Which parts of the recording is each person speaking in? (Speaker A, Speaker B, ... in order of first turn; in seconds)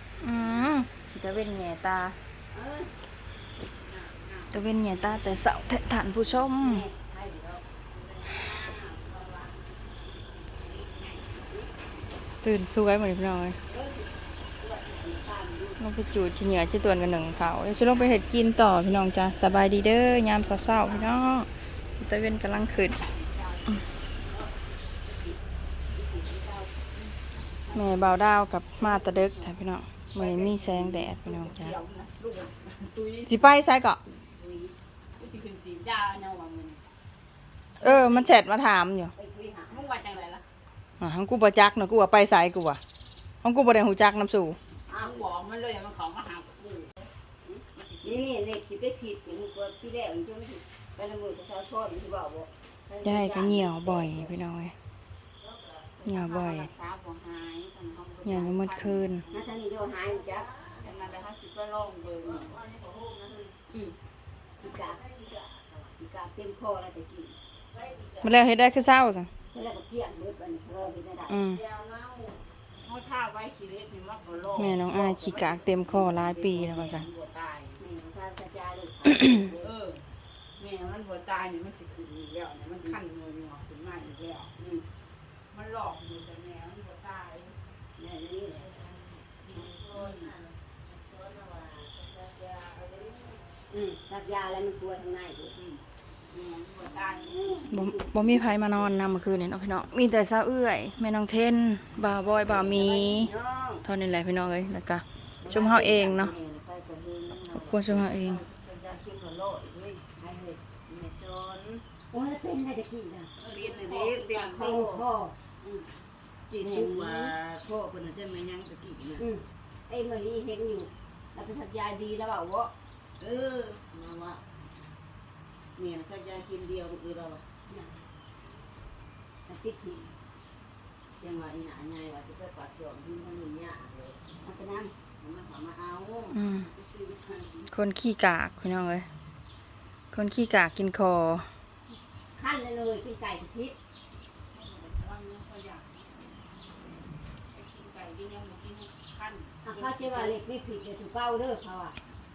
Speaker A: 0.2-2.2, 4.5-6.9, 12.4-13.6, 15.8-23.0, 27.7-31.8, 33.3-34.0, 37.8-39.1, 41.0-42.8, 43.4-44.6, 53.0-54.8, 56.1-56.7, 58.2-59.3, 68.2-69.3, 71.3-71.6, 74.6-77.1, 79.1-79.5, 97.7-103.3, 103.8-106.3, 107.5-108.4, 136.3-136.7, 137.7-139.1, 140.1-141.5
Speaker B: 2.5-3.0, 6.5-7.6, 13.7-15.8, 25.1-25.4, 25.9-26.7, 27.8-28.1, 34.4-34.7, 39.2-39.9, 44.9-45.2, 47.5-54.3, 59.3-60.5, 64.6-65.0, 66.0-67.4, 69.5-71.5, 77.8-79.7, 84.6-84.8, 88.0-88.9, 93.7-95.6, 97.5-98.0, 102.6-103.8, 110.2-110.6, 112.1-113.3, 114.5-115.3, 116.6-117.4, 119.2-122.7, 127.7-128.0, 129.5-130.1, 134.4-134.9, 142.4-143.8, 149.6-152.0
Speaker C: 8.0-9.5, 23.2-23.8, 30.2-33.5, 35.2-36.9, 39.7-40.4, 44.9-46.9, 47.8-48.2, 56.0-59.3, 60.8-62.6, 72.8-75.6, 76.2-77.8, 79.6-80.0, 80.6-84.5, 85.5-87.6, 90.0-90.3, 96.3-97.7, 113.5-114.8, 144.5-146.1, 147.5-150.3
Speaker D: 55.6-55.9, 60.1-61.0, 62.2-63.6, 64.6-65.8, 67.7-68.4, 71.6-72.4, 89.5-93.5, 105.5-110.0, 110.9-111.8, 113.4-115.0, 116.5-119.2, 123.2-124.4, 125.8-127.4, 131.2-134.2, 135.2-137.4